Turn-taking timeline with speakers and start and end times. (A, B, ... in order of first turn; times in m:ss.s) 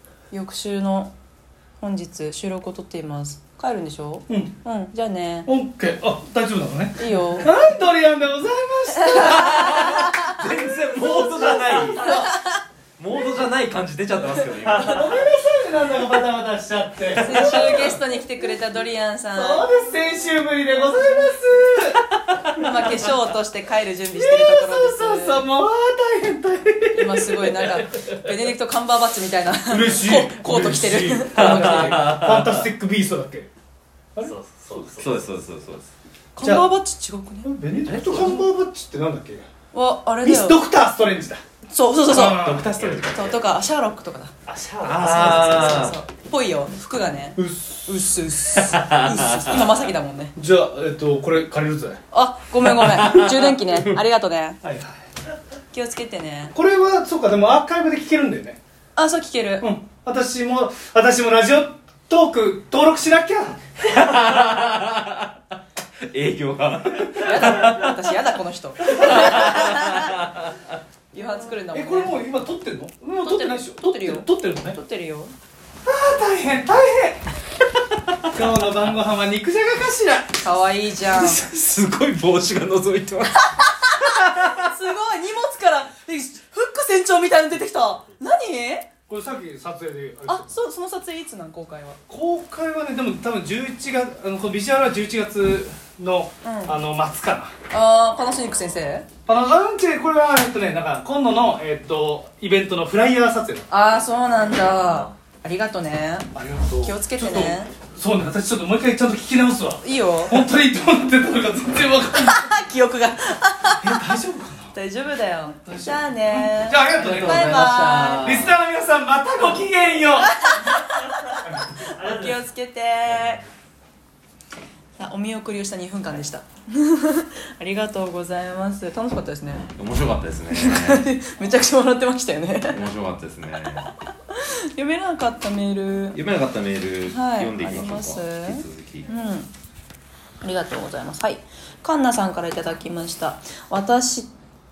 0:00.3-0:01.1 A
0:01.8-0:05.5 A
0:05.4-0:09.9 B
0:07.0-0:07.5 A
0:09.1-0:10.3 A
0:09.1-0:12.2 C
0:11.0-0:12.3 B
0:12.0-0:12.6 A
0:13.0-0:15.3 C
0:14.8-0:18.0 B
0:17.1-0:17.9 C
0:17.2-0:19.6 A
0:19.3-0:22.0 B
0:22.5-0:25.4 A
0:24.1-0:28.1 B
0:26.9-0:32.0 A
0:29.7-0:33.5 B
0:31.3-0:32.6 C
0:34.1-0:34.8 B
0:34.2-0:35.3 D
0:35.0-0:35.9 C
0:36.4-0:37.5 A
0:36.4-0:36.7 B
0:37.4-0:39.5 B
0:37.8-0:38.4 C
0:39.7-0:40.6 A
0:40.2-0:41.4 B
0:41.7-0:42.4 A
0:42.1-0:42.7 B
0:42.4-0:43.4 C
0:42.6-0:43.2 D
0:43.1-0:44.3 A
0:44.4-0:45.9 D
0:44.8-0:46.0 C
0:45.0-0:50.3 A
0:47.4-0:48.0 B
0:48.6-0:49.7 C
0:50.4-0:52.0 B
0:52.1-0:54.6 A
0:52.7-0:53.8 C
0:54.6-0:55.0 B
0:55.7-0:56.5 A
0:56.5-0:58.6 B
0:58.9-0:59.7 A
0:59.6-1:03.6 B
1:03.8-1:05.4 C
1:06.0-1:08.0 C
1:07.2-1:10.2 A
1:08.8-1:10.7 C
1:11.1-1:12.2 A
1:11.7-1:14.8 B
1:13.2-1:15.3 A
1:15.8-1:17.2 B
1:17.8-1:18.4 C
1:18.3-1:20.3 B
1:20.4-1:21.4 A
1:21.1-1:24.7 C
1:23.5-1:28.9 A
1:29.1-1:30.5 B
1:30.2-1:32.0 A
1:32.1-1:37.5 B
1:36.4-1:36.8 A
1:37.7-1:39.1 A
1:39.2-1:43.7 B
1:43.7-1:46.3 A
1:44.4-1:45.0 D
1:46.3-1:52.5 B
1:46.8-1:47.7 A
1:49.8-1:50.4 A
1:52.2-1:53.9 A
1:53.8-1:54.7 B
1:54.7-1:58.3 A
1:55.6-2:00.3 B
1:56.9-1:58.5 C
2:00.2-2:03.4 A
2:02.0-2:02.3 D
2:05.0-2:09.7 A
2:09.6-2:11.1 C
2:10.5-2:12.8 A
2:12.7-2:13.9 C
2:13.8-2:16.2 A
2:16.1-2:19.1 C
2:17.1-2:19.5 A
2:20.4-2:24.3 A